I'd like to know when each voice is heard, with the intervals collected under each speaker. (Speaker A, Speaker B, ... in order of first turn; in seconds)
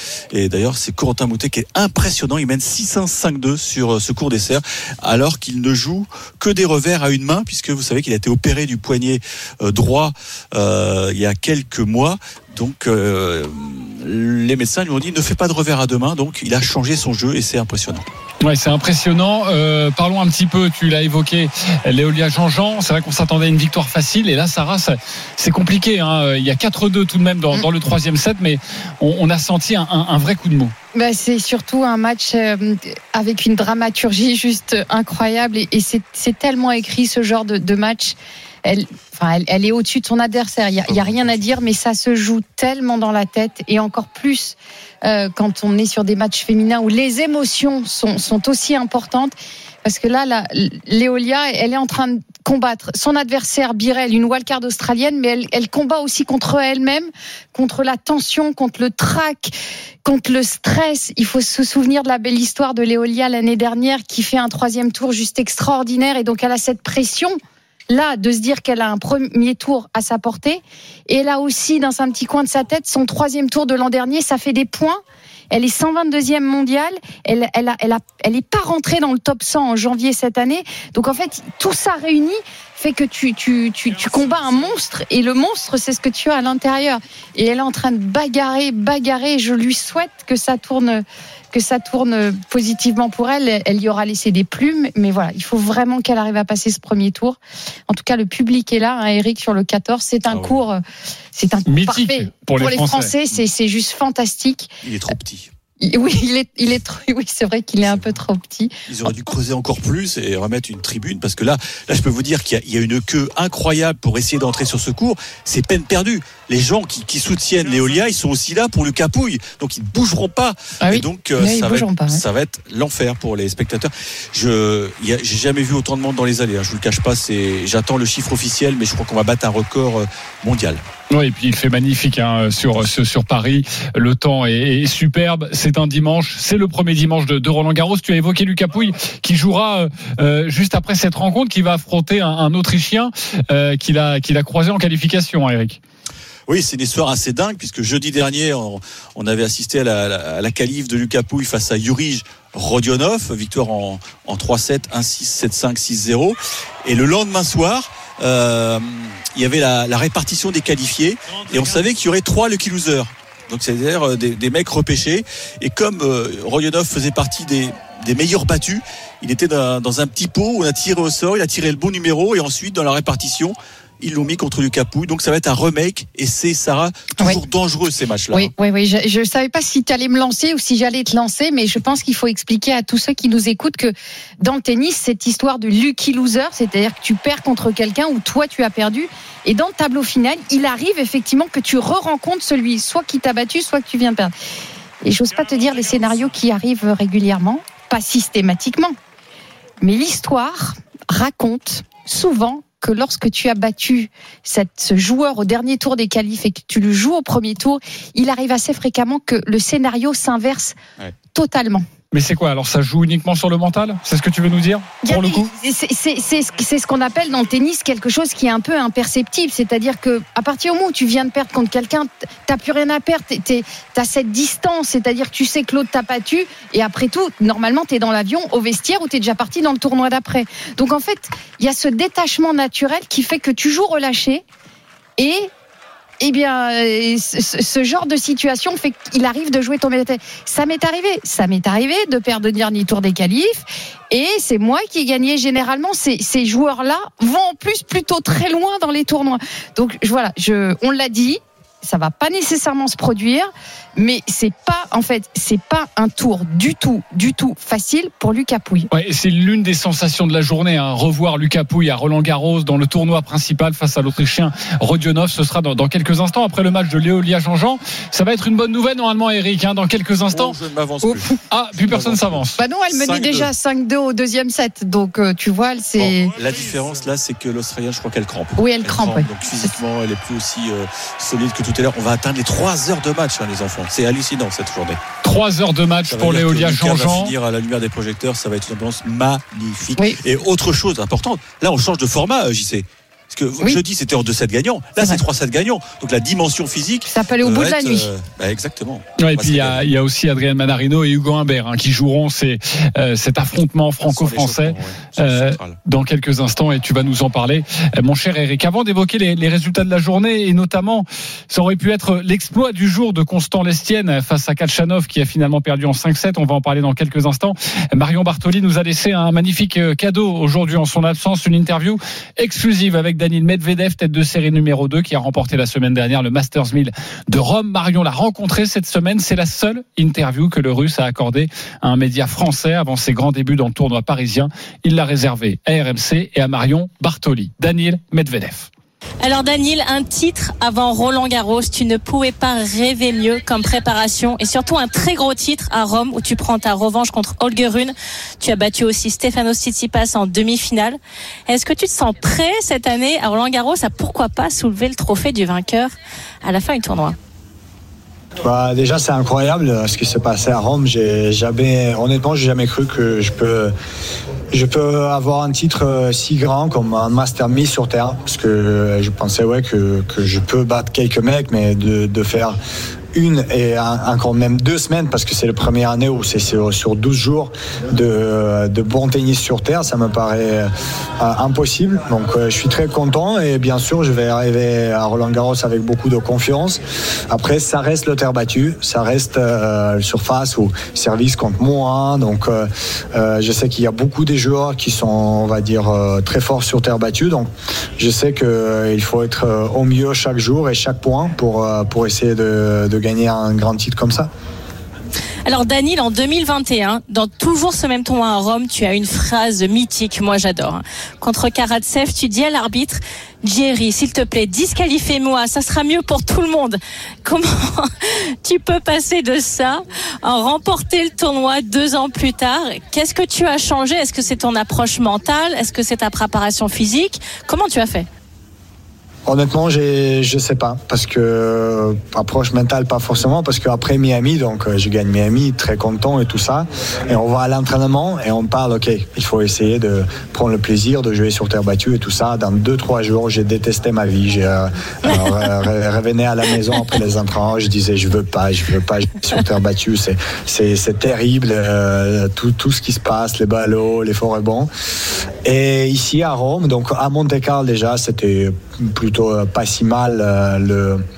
Speaker A: 0.3-18.1, 100.3-100.6, 104.8-105.5, 107.8-108.1, 108.9-130.8, 146.5-178.5, 270.3-273.5, 276.0-285.0, 286.1-299.8, 304.0-305.8
Speaker B: 18.4-30.7, 101.7-103.1, 131.1-145.8, 212.1-215.5, 258.9-272.6, 285.2-287.3, 299.2-338.7
Speaker C: 30.9-59.5, 60.0-67.4, 67.9-100.8, 101.3-104.7, 105.8-108.7, 120.8-122.2, 178.3-194.3, 195.0-198.9, 199.8-210.8, 211.3-211.8, 215.1-234.4, 235.2-235.5, 236.2-258.9, 272.6-276.3, 278.6-279.8, 297.1-298.1
Speaker D: 339.2-355.9, 356.4-357.2, 405.5-417.9, 418.4-428.1
Speaker E: 358.4-363.7, 364.5-372.6, 373.1-404.3, 429.3-454.7, 455.4-461.0